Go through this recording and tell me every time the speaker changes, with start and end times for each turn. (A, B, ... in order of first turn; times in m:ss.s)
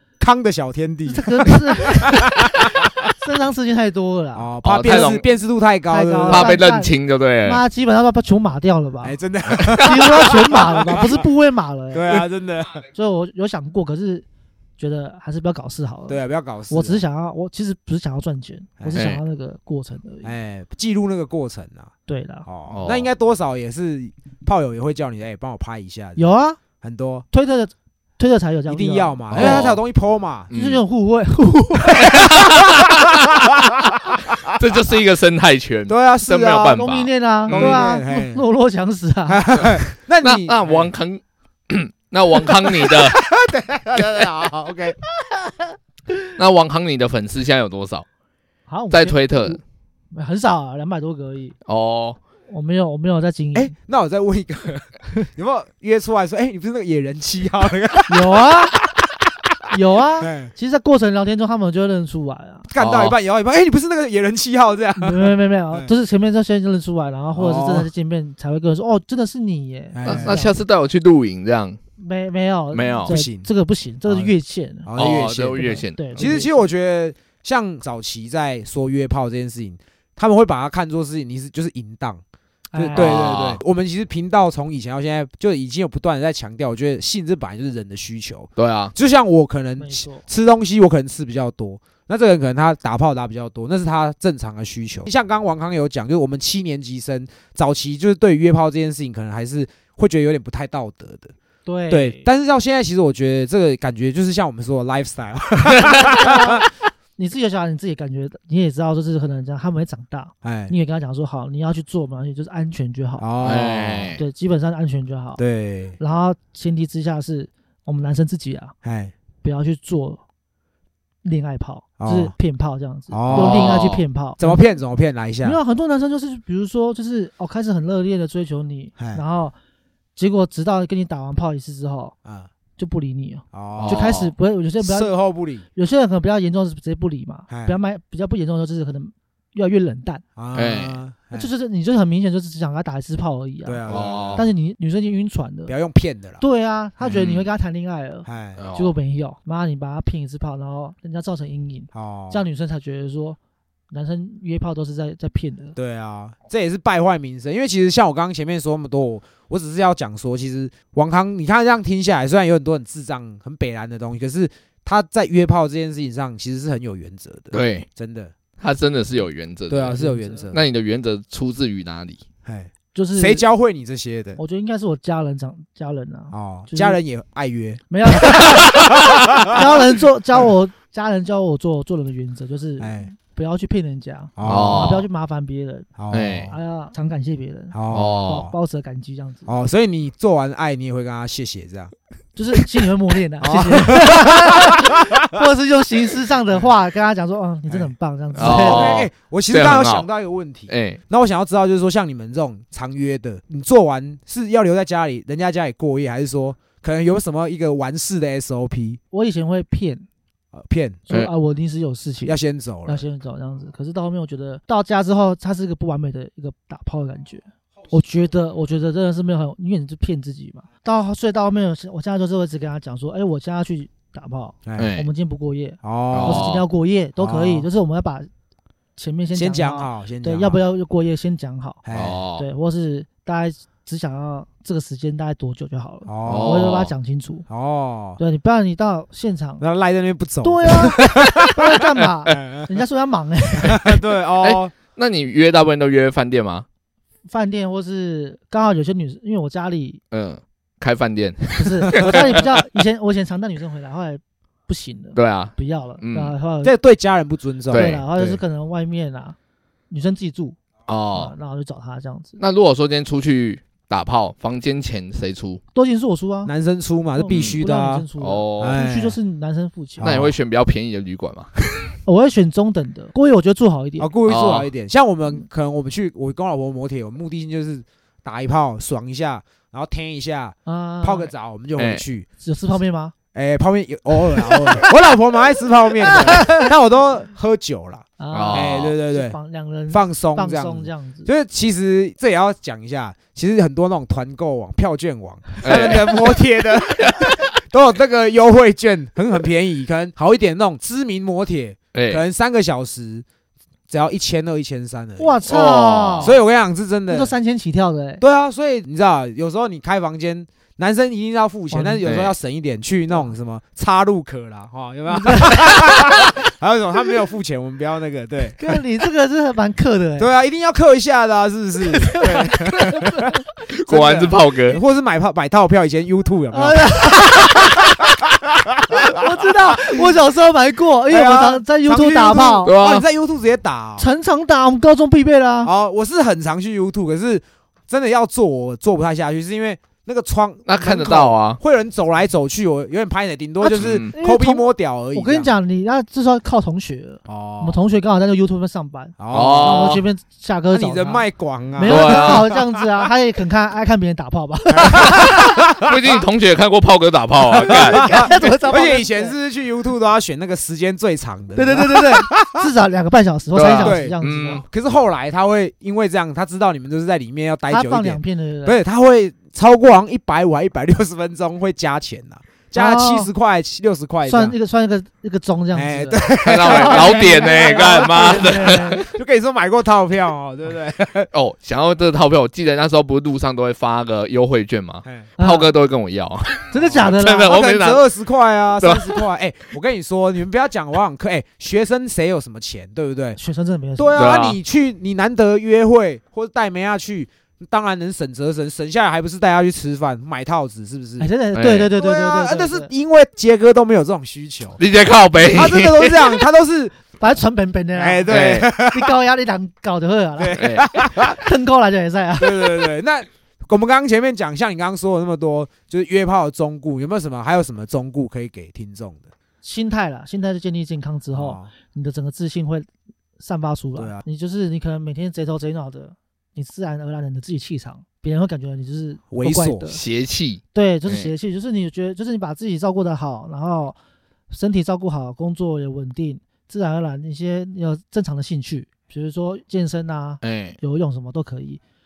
0:00.2-0:03.1 A
0:01.0-0:05.2 B
0:04.3-0:06.6 A
0:04.6-0:05.2 C
0:05.9-0:09.2 B
0:06.3-0:07.6 C
0:09.0-0:11.2 A
0:09.6-0:09.9 C
0:09.8-0:12.2 B
0:11.9-0:12.8 A
0:12.9-0:14.2 B
0:14.8-0:20.3 B
0:16.1-0:17.0 A
0:18.9-0:19.2 C
0:20.2-0:21.9 A
0:22.1-0:22.5 B
0:22.4-0:26.3 A
0:22.7-0:23.1 C
0:26.2-0:26.6 B
0:26.8-0:27.2 A
0:27.3-0:29.7 B
0:28.7-0:30.5 A
0:29.3-0:29.8 C
0:30.5-0:30.8 C
0:30.5-0:32.3 B
0:32.0-0:33.1 C
0:34.4-0:37.8 C
0:35.9-0:36.8 A
0:36.7-0:39.5 B
0:37.5-0:38.4 A
0:39.3-0:40.9 A
0:40.2-0:43.2 C
0:42.7-0:45.0 A
0:46.4-0:48.0 C
0:48.7-0:49.6 B
0:48.9-0:49.6 C
0:50.1-0:51.6 B
0:51.7-0:52.2 C
0:52.5-0:53.7 B
0:53.5-0:58.8 A
0:58.1-0:58.8 B
0:59.7-1:02.7 B
1:00.2-1:00.5 A
1:02.7-1:05.9 A
1:02.8-1:03.2 C
1:05.0-1:10.6 B
1:07.3-1:07.9 A
1:09.9-1:10.4 A
1:10.0-1:11.8 C
1:12.0-1:16.6 B
1:12.7-1:13.1 C
1:13.1-1:13.5 A
1:14.0-1:14.3 A
1:14.8-1:15.6 A
1:14.9-1:16.3 C
1:16.1-1:22.2 A
1:22.7-1:23.2 B
1:22.8-1:41.3 A
1:22.9-1:23.6 C
1:28.6-1:28.9 C
1:29.8-1:30.2 B
1:41.6-1:42.2 B
1:41.9-1:46.6 A
1:45.9-1:46.6 B
1:47.2-1:53.2 B
1:50.4-1:50.7 A
1:53.2-1:54.1 A
1:53.4-1:54.2 C
1:54.2-1:55.4 B
1:55.4-1:56.0 A
1:56.0-1:58.7 B
1:58.8-1:59.1 A
1:59.4-2:00.2 B
2:01.2-2:04.6 B
2:02.0-2:02.3 A
2:03.1-2:05.6 A
2:03.3-2:04.0 C
2:05.4-2:09.5 B
2:09.0-2:09.2 A
2:10.2-2:12.2 B
2:12.8-2:15.1 B
2:13.5-2:14.1 A
2:13.8-2:14.3 C
2:14.8-2:15.6 A
2:15.7-2:20.2 B
2:17.5-2:17.8 A
2:20.4-2:21.5 A
2:20.5-2:21.0 C
2:21.3-2:23.8 B
2:23.6-2:24.4 A
2:23.9-2:24.5 C
2:24.3-2:25.7 B
2:25.7-2:26.4 A
2:26.4-2:33.4 B
2:27.1-2:27.4 C
2:28.2-2:28.6 A
2:28.6-2:28.9 C
2:31.9-2:32.4 A
2:33.9-2:35.8 B
2:35.8-2:48.3 A
2:47.5-2:47.8 C
2:48.6-2:50.0 C
2:49.7-2:50.6 A
2:49.9-2:50.4 B
2:50.5-2:52.2 C
2:52.4-2:54.4 A
2:52.9-2:53.4 B
2:54.4-2:57.0 B
2:56.3-2:59.7 A
2:57.9-3:05.9 B
3:02.8-3:03.1 A
3:04.4-3:05.0 A
3:04.4-3:05.0 C
3:06.0-3:06.5 A
3:06.1-3:06.5 C
3:06.5-3:07.7 B
3:07.7-3:08.5 A
3:07.9-3:08.5 C
3:08.2-3:09.5 B
3:09.4-3:11.9 A
3:12.4-3:19.0 B
3:13.4-3:15.3 A
3:17.7-3:29.0 A
3:18.4-3:20.1 C
3:20.7-3:21.0 C
3:29.1-3:30.0 B
3:30.5-3:31.0 A
3:31.1-3:48.3 B
3:32.2-3:33.0 A
3:44.8-3:45.1 C
3:45.8-3:46.5 A
3:46.1-3:46.6 C
3:47.2-3:47.7 A
3:49.0-3:51.8 B
3:49.3-3:50.6 A
3:51.8-3:52.2 A
3:51.9-3:52.4 C
3:52.4-3:57.4 B
3:56.0-3:56.8 A
3:56.2-3:56.9 C
3:57.5-3:58.2 A
3:58.2-3:59.6 B
3:59.6-4:01.8 A
4:00.4-4:04.0 B
4:02.3-4:02.7 A
4:03.6-4:04.7 A
4:04.4-4:06.6 C
4:07.3-4:10.0 B
4:10.1-4:12.5 C
4:11.6-4:16.7 B
4:15.2-4:16.3 C
4:16.6-4:18.4 A
4:17.7-4:18.1 C
4:17.7-4:19.4 B
4:19.9-4:20.6 B
4:20.9-4:21.3 C
4:21.1-4:22.4 B
4:22.4-4:25.6 C
4:25.7-4:26.5 B
4:26.4-4:28.0 A
4:27.2-4:30.2 B
4:27.3-4:27.6 C
4:28.2-4:28.8 C
4:28.6-4:29.2 A
4:30.0-4:30.3 A
4:30.0-4:31.9 C
4:32.0-4:34.1 B
4:34.0-4:42.2 A
4:34.3-4:34.7 C
4:40.6-4:41.3 B
4:41.8-4:42.0 C
4:42.4-4:43.1 B
4:43.3-4:49.4 A
4:46.1-4:46.6 B
4:48.2-4:51.3 B
4:48.3-4:48.9 C
4:49.9-5:03.2 A
4:55.6-4:56.2 C
5:01.9-5:02.2 C
5:03.9-5:05.4 A
5:05.2-5:06.4 B
5:05.4-5:06.4 C
5:06.2-5:07.3 A
5:07.1-5:08.2 B
5:08.2-5:18.8 A
5:11.7-5:12.0 B
5:12.0-5:12.3 C
5:15.1-5:16.2 B
5:18.6-5:20.3 B
5:20.2-5:30.0 A
5:21.8-5:23.3 B
5:23.8-5:24.8 C
5:26.5-5:28.0 B
5:28.9-5:32.7 B
5:31.1-5:34.1 A
5:32.6-5:33.0 C
5:34.0-5:35.7 B
5:35.6-5:45.5 A
5:40.6-5:41.6 C
5:43.6-5:55.4 B
5:43.6-5:44.1 C
5:47.3-5:47.8 A
5:49.2-5:50.0 A
5:49.3-5:50.0 C
5:50.7-5:52.6 A
5:51.8-5:52.4 C
5:54.7-5:55.9 A
5:54.9-5:58.0 C
5:57.5-6:02.6 A
5:57.7-5:59.3 B
6:01.6-6:04.6 B
6:03.5-6:04.6 C
6:03.7-6:14.5 A
6:07.7-6:08.8 B
6:12.7-6:13.3 B
6:14.3-6:19.0 B
6:15.7-6:21.3 A
6:16.4-6:19.1 C
6:21.3-6:28.0 C
6:25.4-6:25.7 B
6:26.7-6:27.7 B
6:26.8-6:33.4 A
6:28.8-6:29.2 C
6:33.4-6:34.2 B
6:34.0-6:41.3 A
6:34.2-6:34.6 C
6:41.2-6:42.9 B
6:41.5-6:41.9 C
6:41.9-6:44.8 A
6:44.8-6:46.4 C
6:45.4-6:47.0 A
6:47.2-6:52.9 B
6:47.9-6:49.1 A
6:48.3-6:48.7 C
6:50.4-6:51.4 A
6:50.5-6:50.9 C
6:52.4-6:59.3 A
6:59.6-7:02.9 B
7:01.3-7:01.7 A
7:03.4-7:10.0 B
7:04.0-7:04.2 A
7:09.3-7:10.0 A
7:09.9-7:11.3 C
7:10.7-7:14.0 B
7:14.5-7:21.8 B
7:20.4-7:20.8 C